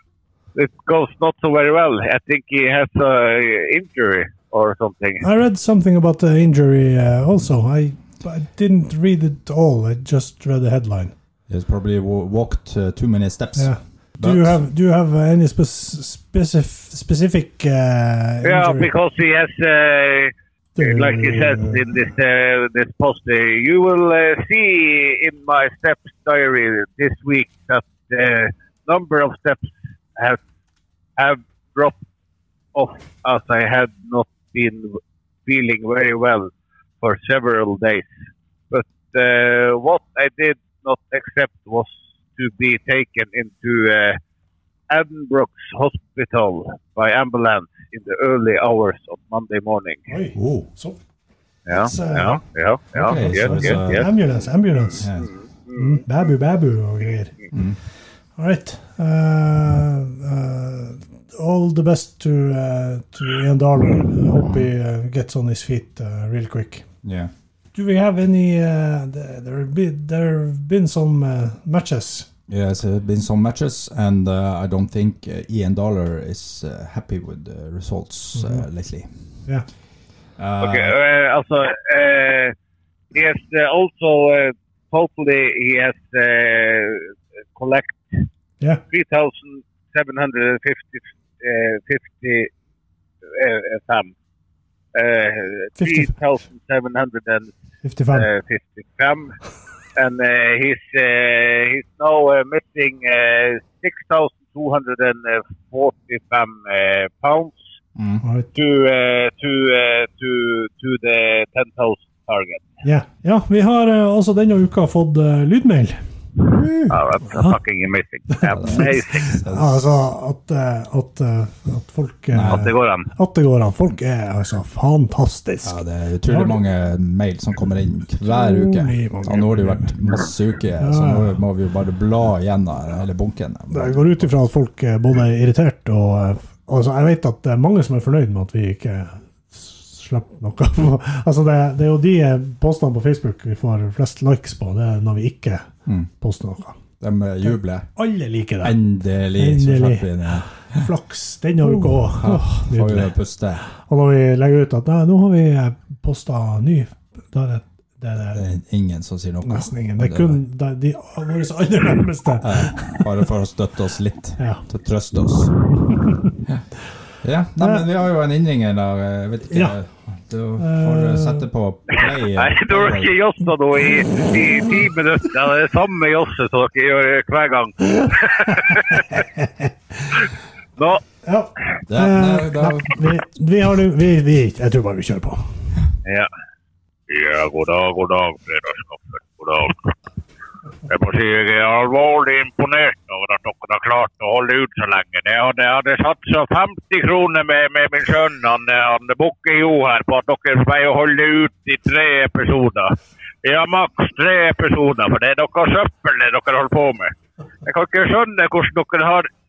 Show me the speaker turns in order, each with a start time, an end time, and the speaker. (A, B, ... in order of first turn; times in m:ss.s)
0:00.5-0:05.2 A
0:05.2-0:11.1 B
0:11.5-0:14.6 C
0:13.6-0:18.9 B
0:18.4-0:30.4 A
0:20.8-0:21.8 B
0:31.2-0:32.0 A
0:32.7-0:38.1 A
0:38.7-0:44.2 A
0:44.9-0:50.1 A
0:50.1-0:51.0 B
0:50.3-0:50.7 C
0:51.7-0:54.0 A
0:51.7-0:52.4 B
0:52.9-0:54.1 C
0:53.1-0:55.1 B
0:55.0-0:55.3 C
0:55.2-0:56.0 A
0:55.7-0:57.3 B
0:57.5-0:57.8 C
0:58.4-1:06.8 B
1:04.4-1:04.7 C
1:07.0-1:07.3 C
1:07.7-1:12.3 B
1:12.5-1:19.1 C
1:18.4-1:18.6 B
1:20.4-1:20.9 C
1:20.6-1:22.5 A
1:23.1-1:28.2 A
1:28.9-1:32.5 A
1:33.3-1:34.1 A
1:34.9-1:37.5 A
1:35.8-1:36.1 B
1:37.8-1:38.3 B
1:38.1-1:39.3 A
1:40.0-1:47.6 A
1:48.0-1:48.2 C
1:48.2-1:48.5 B
1:48.5-1:52.7 A
1:52.8-1:56.0 B
1:56.6-1:57.6 B
1:56.9-1:59.4 A
1:58.5-2:00.0 C
1:58.6-2:06.6 B
2:02.3-2:02.6 C
2:02.5-2:03.1 A
2:05.6-2:14.3 C
2:08.2-2:10.0 B
2:10.8-2:11.4 B
2:13.7-2:25.7 B
2:26.2-2:26.8 B
2:27.0-2:27.9 C
2:28.0-2:28.8 B
2:28.6-2:30.8 C
2:29.4-2:33.1 B
2:31.6-2:33.6 C
2:33.7-2:38.4 B
2:38.3-2:40.4 C
2:39.4-2:43.0 B
2:42.4-2:45.5 C
2:44.4-2:44.6 B
2:45.8-2:46.4 B
2:47.2-2:53.1 C
2:50.6-2:51.4 B
2:52.0-2:59.2 A
2:59.1-2:59.6 B
3:00.8-3:01.0 A
3:01.2-3:05.5 B
3:01.9-3:03.0 C
3:07.1-3:09.9 A
3:10.9-3:27.1 A
3:27.6-3:29.3 A